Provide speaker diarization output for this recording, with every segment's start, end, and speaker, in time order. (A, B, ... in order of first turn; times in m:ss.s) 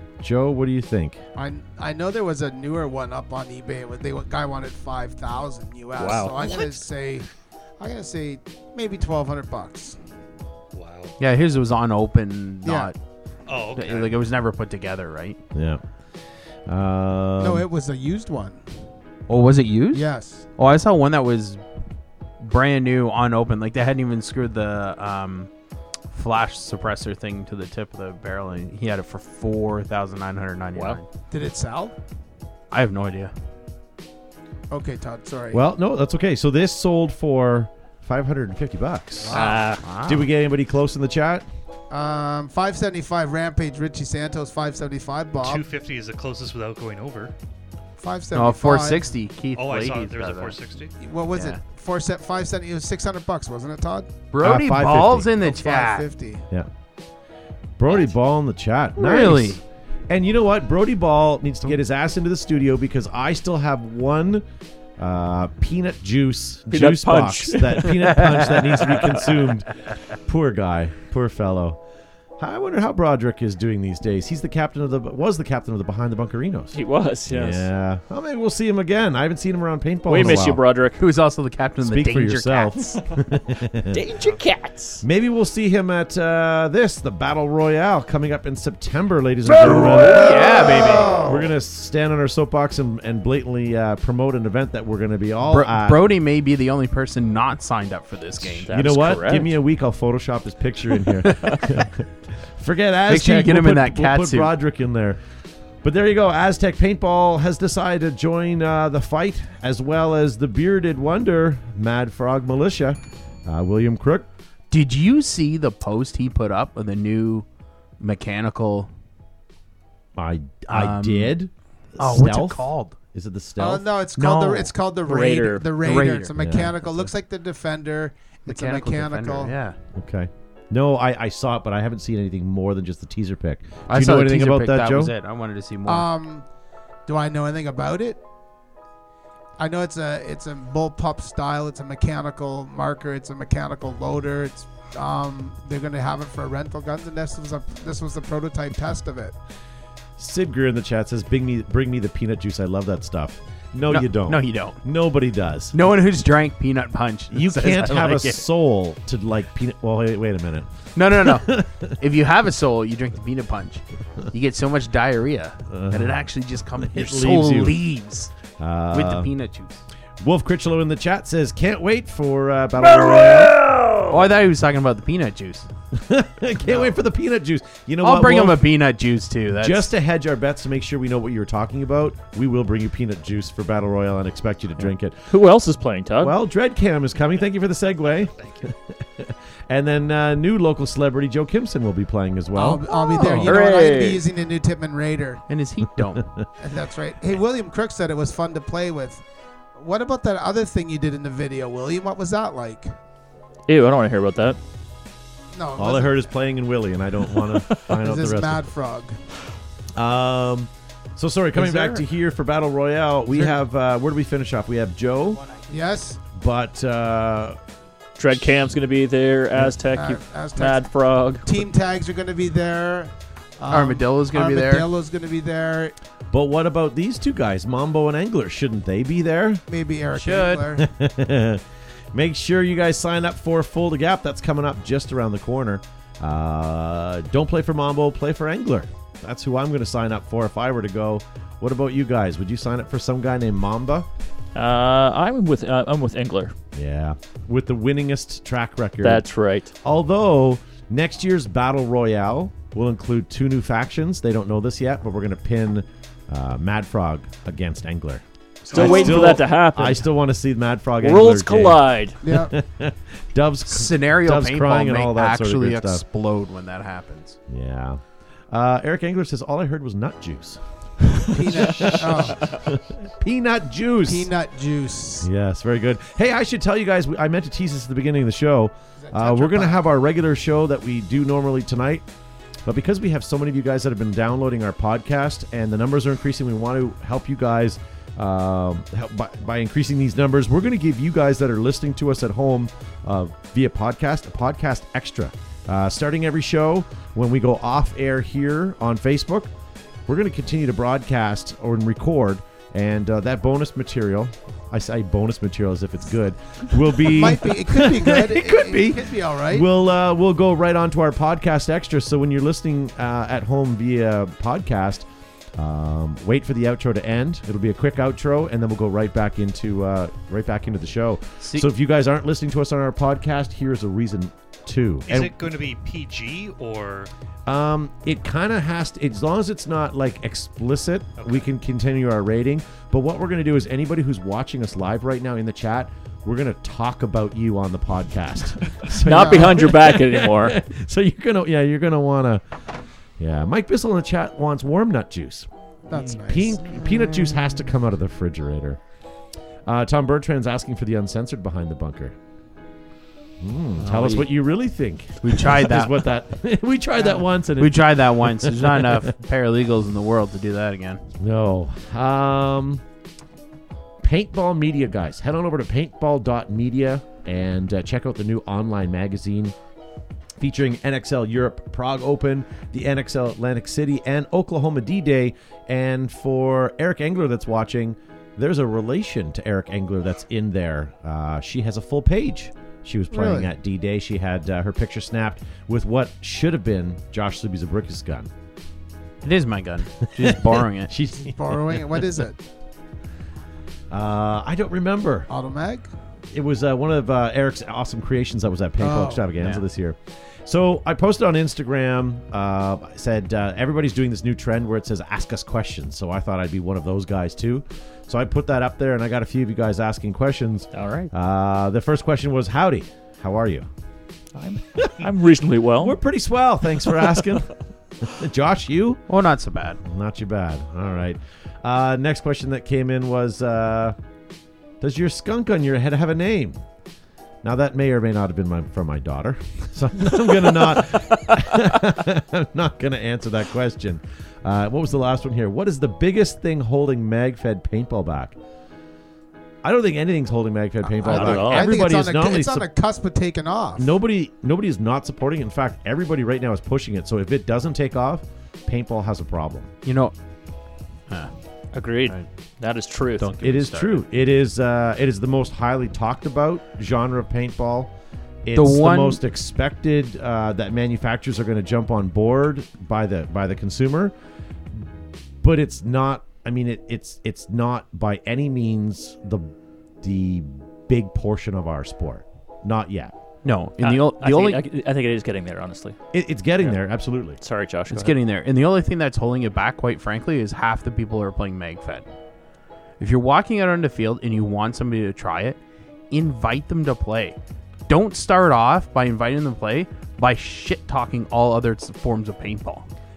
0:00.2-0:01.2 A
0:01.4-0:07.3 B
0:06.0-0:06.7 C
0:07.8-0:10.0 B
0:10.7-0:11.2 D
0:11.2-0:13.0 E
0:12.6-0:12.9 B
0:13.5-0:14.2 D
0:13.7-0:15.4 E
0:15.5-0:15.8 A
0:16.6-0:17.6 A
0:17.4-0:18.6 B
0:19.3-0:21.6 E
0:19.9-0:20.5 B
0:22.4-0:25.5 E
0:26.1-0:31.1 E
0:31.3-0:31.9 B
0:32.7-0:33.3 E
0:34.7-0:35.6 B
0:35.5-0:39.4 A
0:39.2-0:39.6 B
0:39.3-0:39.8 C
0:39.8-0:40.3 E
0:40.0-0:41.4 A
0:41.9-0:45.6 B
0:45.4-0:47.3 D
0:48.0-0:49.1 B
0:48.3-0:50.6 E
0:49.5-0:50.9 D
0:51.0-0:54.1 B
0:51.3-0:51.6 E
0:54.3-0:56.1 E
0:54.4-0:55.3 A
0:55.4-0:56.5 B
0:57.8-1:04.4 A
0:59.0-0:59.6 E
1:05.0-1:11.8 A
1:06.7-1:08.2 C
1:08.0-1:09.5 E
1:12.4-1:20.6 A
1:16.7-1:17.6 C
1:20.1-1:21.0 C
1:21.0-1:23.0 E
1:21.8-1:24.0 A
1:23.9-1:25.0 C
1:25.0-1:36.1 A
1:29.6-1:31.5 E
1:29.6-1:30.3 C
1:35.4-1:38.7 E
1:38.4-1:39.5 C
1:38.7-1:45.2 A
1:41.2-1:41.7 E
1:43.1-1:44.5 E
1:45.8-1:54.3 A
1:54.7-1:57.4 E
1:58.0-1:58.9 E
2:00.2-2:03.9 A
2:00.7-2:01.4 E
2:02.0-2:03.0 E
2:03.6-2:09.5 B
2:04.2-2:04.7 E
2:05.1-2:05.7 C
2:05.8-2:06.3 E
2:06.4-2:06.7 A
2:08.5-2:09.8 E
2:09.9-2:15.1 A
2:13.9-2:16.1 E
2:15.8-2:16.4 B
2:17.1-2:18.2 B
2:19.6-2:29.3 B
2:30.2-2:35.8 A
2:33.9-2:34.8 E
2:35.7-2:38.4 E
2:37.3-2:41.9 A
2:41.0-2:48.3 E
2:45.7-2:47.8 A
2:48.6-2:49.3 A
2:48.9-2:49.8 E
2:50.2-2:53.6 A
2:52.9-2:54.2 C
2:54.1-2:55.7 E
2:55.9-2:58.6 A
2:56.6-2:57.0 E
2:58.0-2:59.9 E
2:59.6-3:05.3 A
3:05.3-3:06.3 C
3:06.2-3:12.8 A
3:08.4-3:08.7 D
3:12.5-3:15.4 B
3:12.9-3:13.6 E
3:13.4-3:14.2 C
3:15.5-3:16.3 E
3:16.1-3:16.4 A
3:16.6-3:19.2 B
3:19.8-3:22.9 B
3:23.7-3:24.6 C
3:25.5-3:26.3 B
3:25.8-3:28.6 A
3:27.9-3:29.2 B
3:30.0-3:35.4 A
3:31.5-3:32.0 E
3:35.7-3:36.2 B
3:36.3-3:37.6 A
3:38.2-3:41.4 C
3:38.3-3:38.6 A
3:39.9-3:40.9 B
3:41.4-3:45.9 B
3:43.7-3:44.9 E
3:46.3-3:49.6 A
3:49.7-3:50.9 B
3:50.1-3:50.7 E
3:50.8-4:04.1 A
4:04.5-4:06.5 C
4:06.7-4:09.2 A
4:09.0-4:09.7 C
4:09.8-4:26.0 A
4:18.7-4:20.0 C
4:18.7-4:19.3 E
4:21.0-4:22.2 C
4:22.2-4:22.5 B
4:23.7-4:27.4 E
4:27.5-4:30.6 A
4:31.2-4:34.3 A
4:31.2-4:32.6 B
4:31.8-4:32.6 C
4:34.0-4:35.3 B
4:35.2-4:42.0 A
4:39.0-4:39.8 B
4:42.6-4:59.5 A
5:00.1-5:25.4 A
5:07.0-5:09.6 B
5:21.4-5:21.7 E
5:25.1-5:27.1 D
5:27.5-5:42.4 A
5:31.2-5:31.5 D
5:38.9-5:40.6 C
5:39.0-5:39.7 B
5:43.2-5:45.5 A
5:45.9-5:46.7 B
5:46.3-5:48.8 A
5:49.6-5:52.1 A
5:53.4-5:59.1 A
5:53.8-5:54.3 E
5:55.2-5:56.1 E
5:57.0-6:01.0 E
6:01.2-6:02.8 A
6:04.0-6:09.5 A
6:10.4-6:28.3 A
6:23.1-6:23.5 B
6:29.2-6:30.9 E
6:30.1-6:31.8 A
6:31.2-6:32.4 B
6:33.9-6:35.3 A
6:35.3-6:35.9 B
6:36.3-6:53.7 A
6:38.8-6:39.2 B
6:39.4-6:39.6 E
6:50.7-6:51.1 C
6:54.3-6:56.0 C
6:54.8-6:55.0 A
6:55.8-6:59.0 A
6:59.1-6:59.8 E
6:59.8-7:04.0 A
7:04.8-7:06.6 A
7:07.4-7:18.4 A
7:19.6-7:22.7 A
7:21.0-7:21.7 C
7:21.0-7:23.9 B
7:23.8-7:29.7 A
7:29.8-7:30.1 E
7:31.7-7:33.3 C
7:33.2-7:34.0 E
7:33.4-7:37.9 A
7:38.4-7:44.1 A
7:38.5-7:39.2 E
7:45.4-7:53.1 A
7:53.4-7:54.6 E
7:53.8-7:56.0 C
7:56.1-7:57.4 A
7:57.4-7:58.1 C
7:57.9-8:02.0 E
8:03.0-8:05.6 E
8:06.1-8:07.4 E
8:07.9-8:12.8 E